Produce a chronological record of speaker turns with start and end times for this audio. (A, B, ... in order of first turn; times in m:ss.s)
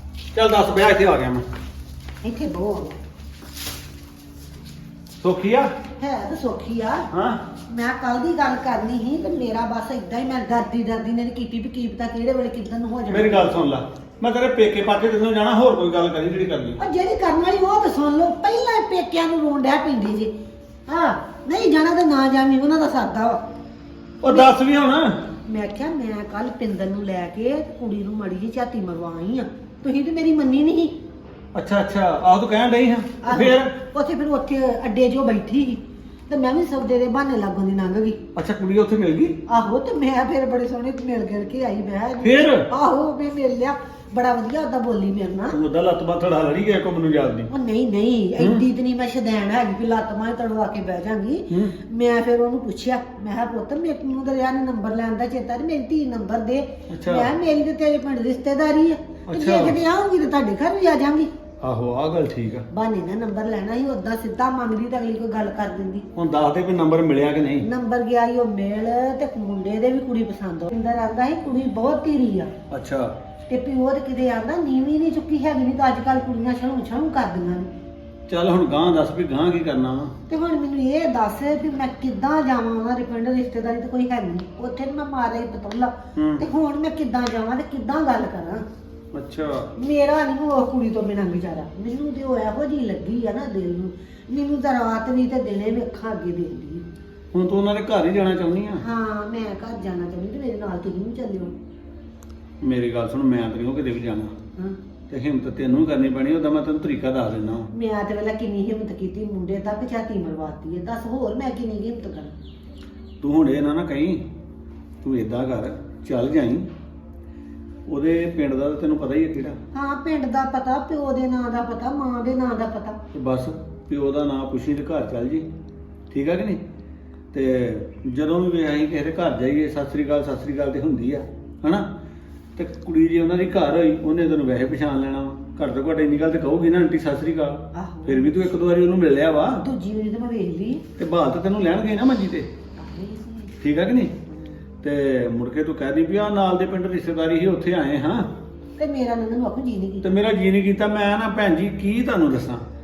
0:00.3-0:01.4 A
0:02.2-0:03.0 B
0:05.2-0:05.7 A
0:06.0-0:07.1 B
0:07.1-0:07.5 A
0:07.7-0:13.6 B
0:13.1-0:16.8 A
0:16.8-0:20.3 B
0:20.9-0:23.4 B
0:24.2-0:25.2 A
0:24.3-0:24.5 B
0:25.4-0:31.0 B
0:31.5-0:33.7 A
0:33.2-0:38.2 B
0:38.4-0:39.4 A
0:39.5-0:45.6 B
0:42.2-0:42.7 A
0:45.5-0:47.5 A
0:47.5-1:01.3 B
0:48.4-0:48.6 A
0:51.5-0:51.8 A
0:56.9-0:57.3 A
0:59.3-0:59.8 A
1:01.6-1:02.7 A
1:02.7-1:06.1 B
1:06.2-1:07.7 A
1:07.6-1:12.5 B
1:12.7-1:13.1 A
1:13.5-1:17.7 B
1:18.3-1:20.1 A
1:20.3-1:28.6 B
1:26.2-1:26.4 A
1:29.1-1:29.7 A
1:29.8-1:36.9 B
1:37.3-1:38.8 A
1:38.8-1:41.5 B
1:42.6-1:44.4 A
1:45.1-1:47.7 A
1:47.7-1:52.3 B
1:53.2-1:54.2 A
1:55.0-1:56.7 A
1:57.9-1:59.6 A
1:59.7-2:03.0 B
2:03.1-2:05.4 A
2:06.1-2:06.6 A
2:07.3-2:11.9 A
2:12.6-2:19.6 A
2:17.7-2:18.4 B
2:19.6-2:20.8 B
2:21.0-2:22.5 A
2:22.8-2:23.5 B
2:23.6-2:24.2 A
2:24.8-2:28.3 A
2:28.8-2:30.1 B
2:30.0-2:32.6 A